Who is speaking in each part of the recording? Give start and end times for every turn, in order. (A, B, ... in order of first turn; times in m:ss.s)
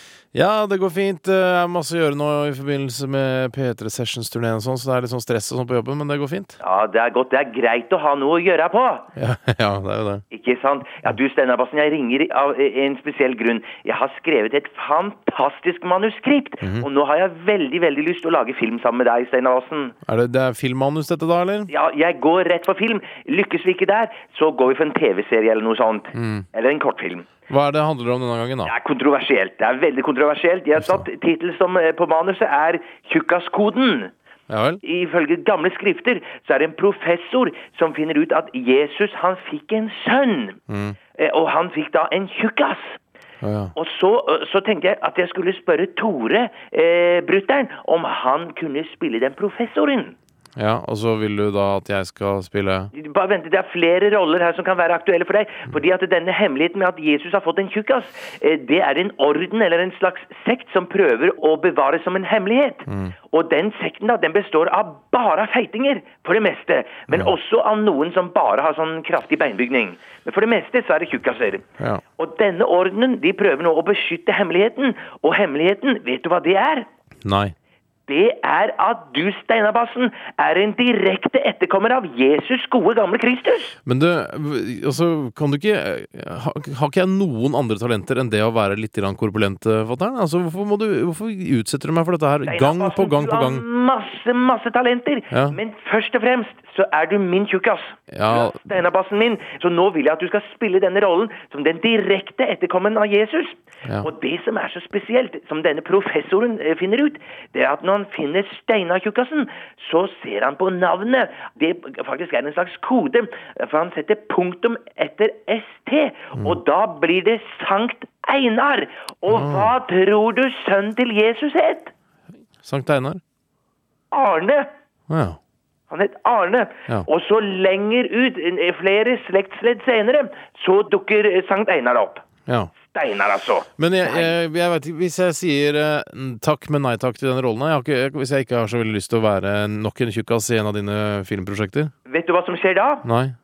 0:00.3-0:06.6 A
0:06.6-0:09.1 B
0:09.2-0:10.2 A
0:10.3-0:20.0 B
0:20.0-0:21.7 A
0:21.7-0:27.3 B
0:26.1-0:26.5 A
0:27.5-0:28.7 A
0:28.6-0:34.1 B
0:30.8-0:31.0 A
0:34.5-0:34.8 A
0:34.8-0:40.6 B
0:40.7-0:41.0 A
0:41.2-0:43.0 B
0:43.4-0:43.7 A
0:43.8-0:50.1 B
0:50.6-0:52.9 A
0:52.9-1:11.6 B
1:02.9-1:03.1 A
1:12.2-1:16.8 B
1:17.2-1:17.5 A
1:18.1-1:23.8 B
1:23.8-1:33.6 A
1:32.4-2:01.9 B
1:35.3-1:35.6 A
1:38.1-1:38.6 A
1:59.3-1:59.7 A
2:02.6-2:03.2 A
2:04.1-2:04.7 B
2:05.1-2:05.4 A
2:05.9-2:12.2 B
2:12.8-2:14.3 B
2:13.8-2:21.9 A
2:22.1-2:23.0 B
2:23.0-2:23.3 A